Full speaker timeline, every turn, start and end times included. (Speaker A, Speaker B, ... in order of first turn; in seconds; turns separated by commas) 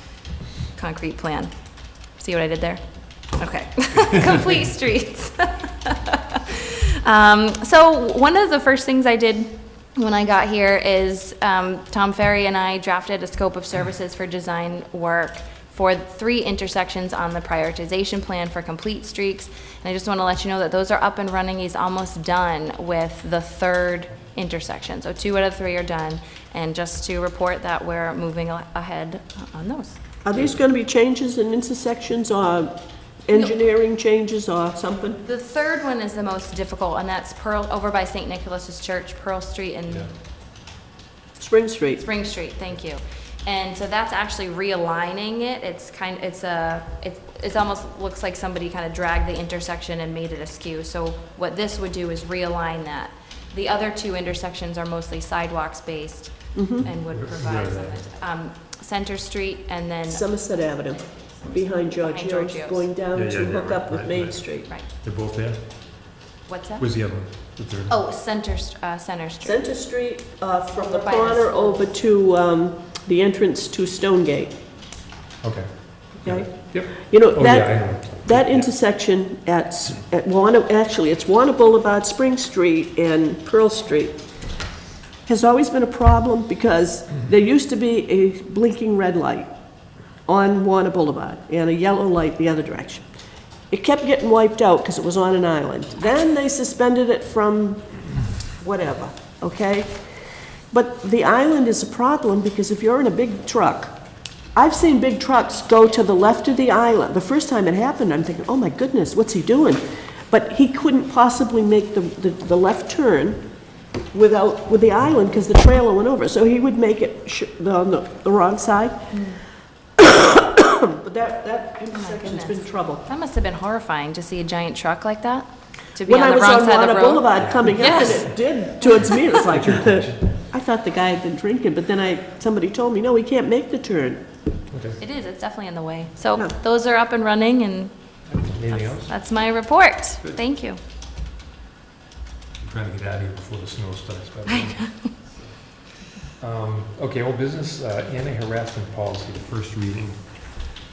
Speaker A: 0.8-1.5, Speaker A: 2.2-2.8, Speaker A: 3.3-30.0, Speaker B: 30.2-32.7, Speaker B: 33.3-35.2, Speaker A: 35.2-40.1, Speaker B: 41.4-42.0, Speaker A: 42.0-60.3, Speaker B: 56.5-56.9, Speaker C: 57.1-58.0, Speaker B: 60.1-64.7, Speaker A: 61.4-62.9, Speaker C: 63.1-65.6, Speaker A: 66.5-66.9, Speaker C: 66.8-68.0, Speaker A: 67.9-69.6, Speaker B: 69.4-74.5, Speaker A: 70.8-71.9, Speaker C: 75.4-78.7, Speaker B: 76.2-84.2, Speaker B: 85.3-89.5, Speaker B: 90.3-93.1, Speaker B: 93.7-97.8, Speaker B: 98.6-99.9, Speaker B: 100.7-104.0, Speaker B: 104.6-113.4, Speaker B: 114.1-119.1, Speaker A: 119.1-119.4, Speaker B: 120.0-123.1, Speaker A: 121.9-128.2, Speaker B: 126.1-134.2, Speaker C: 127.4-128.3, Speaker C: 129.0-130.3, Speaker C: 134.7-135.0, Speaker A: 135.0-137.9, Speaker C: 138.3-139.1, Speaker A: 138.7-140.8, Speaker C: 142.6-144.9, Speaker A: 144.5-145.1, Speaker C: 146.4-150.2